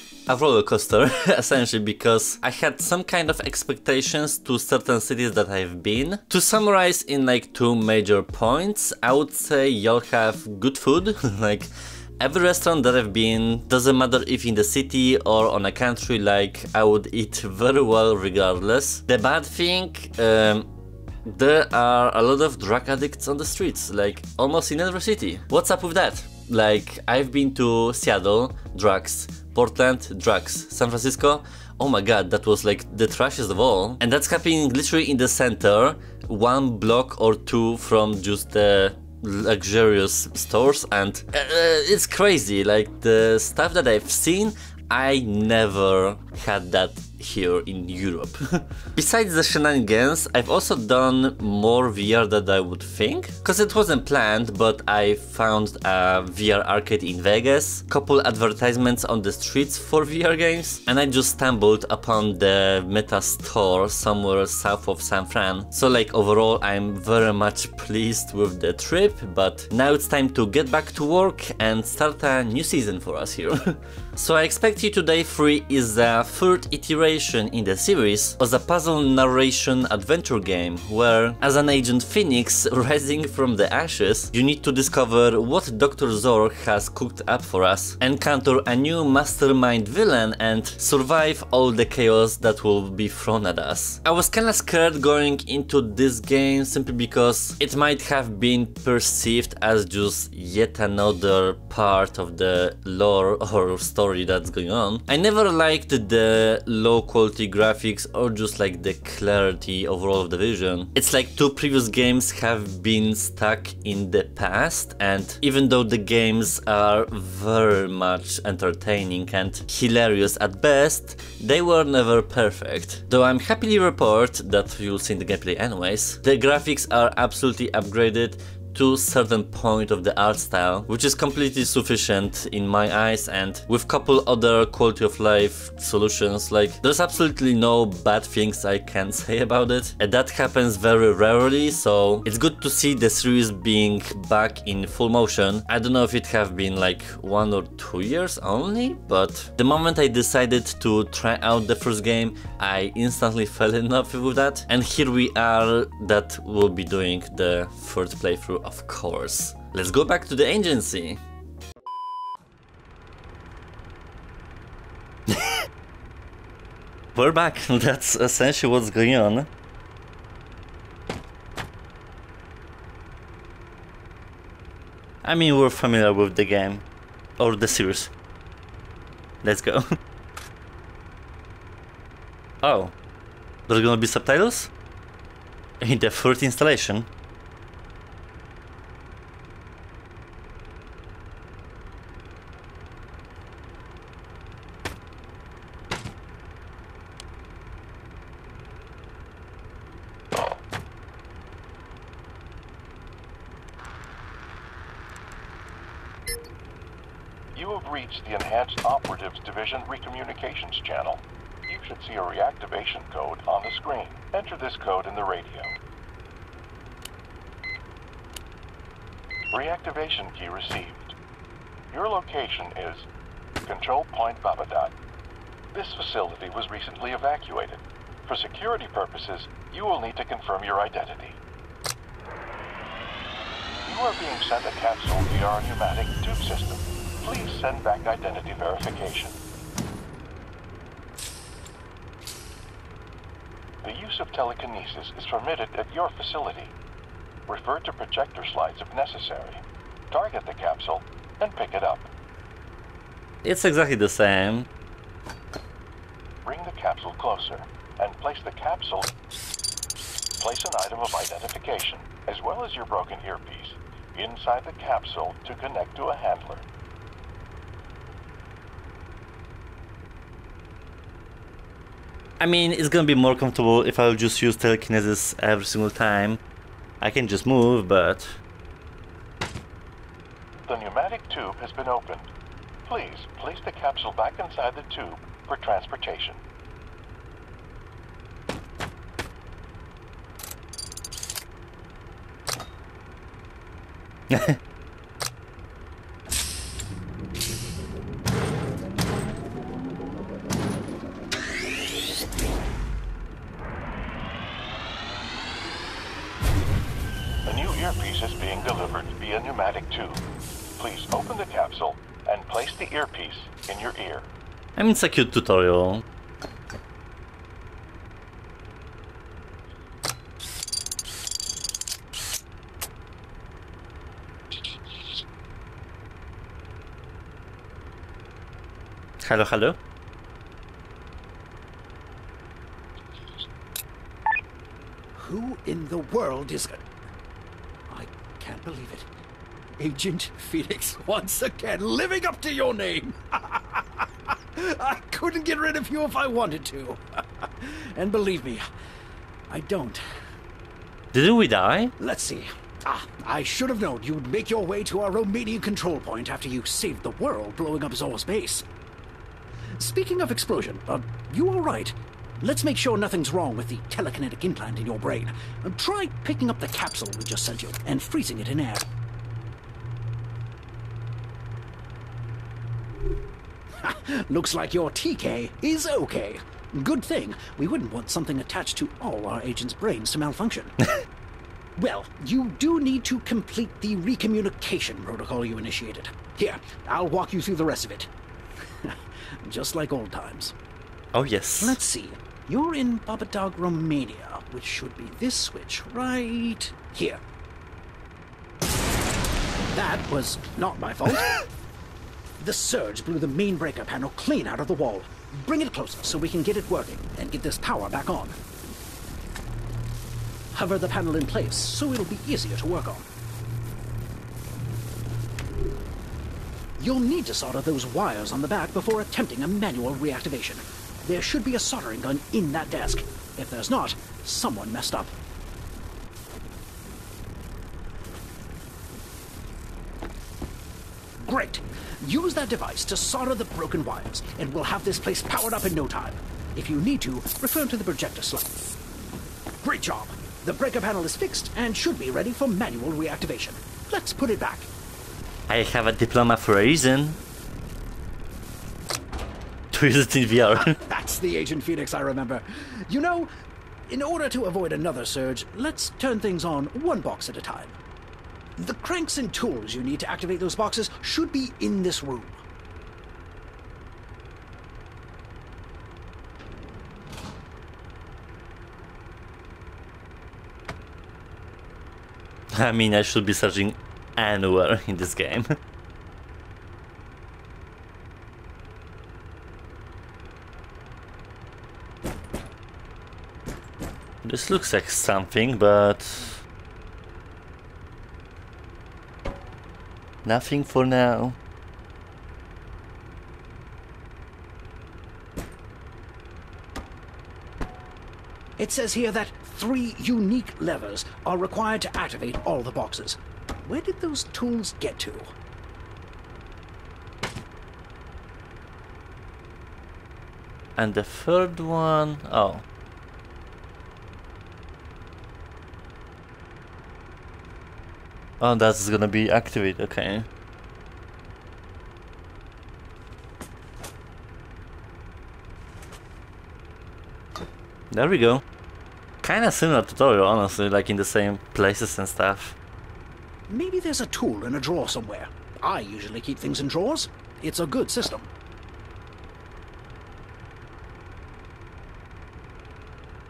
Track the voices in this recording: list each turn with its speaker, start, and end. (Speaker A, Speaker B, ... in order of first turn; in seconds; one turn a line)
Speaker A: 0.3-20.7
Speaker A: 21.2-161.2
Speaker A: 165.3-165.6
Speaker A: 167.1-169.5
Speaker A: 175.2-176.8
Speaker A: 177.4-178.1
Speaker A: 179.4-179.9
Speaker A: 182.6-182.9
Speaker A: 183.7-184.7
Speaker A: 185.8-187.1
Speaker B: 207.5-215.8
Speaker B: 219.5-221.1
Speaker B: 221.9-223.1
Speaker B: 223.6-224.9
Speaker B: 225.7-231.4
Speaker B: 233.8-239.3
Speaker B: 243.8-246.7
Speaker B: 247.5-252.1
Speaker A: 253.4-254.7
Speaker B: 256.4-259.1
Speaker B: 260.4-266.6
Speaker A: 272.4-276.4
Speaker A: 277.0-278.4
Speaker B: 280.6-282.3
Speaker B: 282.8-286.4
Speaker A: 294.3-294.6
Speaker B: 307.4-310.2
Speaker B: 310.8-314.3
Speaker A: 314.8-316.0
Speaker A: 329.2-329.8
Speaker C: 335.1-336.8
Speaker C: 337.9-339.1
Speaker C: 339.8-348.6
Speaker C: 349.5-350.0
Speaker A: 351.1-351.9
Speaker C: 352.0-358.6
Speaker C: 359.8-368.9
Speaker C: 373.8-380.9
Speaker C: 381.8-388.1
Speaker C: 388.8-390.5
Speaker A: 391.1-391.8
Speaker C: 391.6-397.2
Speaker C: 399.7-401.4
Speaker C: 402.4-408.3
Speaker C: 410.5-413.1
Speaker C: 416.8-425.1
Speaker C: 431.2-438.5
Speaker C: 439.6-444.7
Speaker A: 445.5-447.2
Speaker A: 449.7-450.8
Speaker C: 450.5-453.3
Speaker C: 453.9-457.8
Speaker C: 458.6-462.4
Speaker A: 472.5-475.5
Speaker A: 484.2-486.4
Speaker A: 490.2-491.4
Speaker C: 498.6-505.3
Speaker A: 510.8-512.6
Speaker A: 518.4-520.3
Speaker A: 527.9-528.4
Speaker A: 529.2-532.5
Speaker C: 533.5-538.3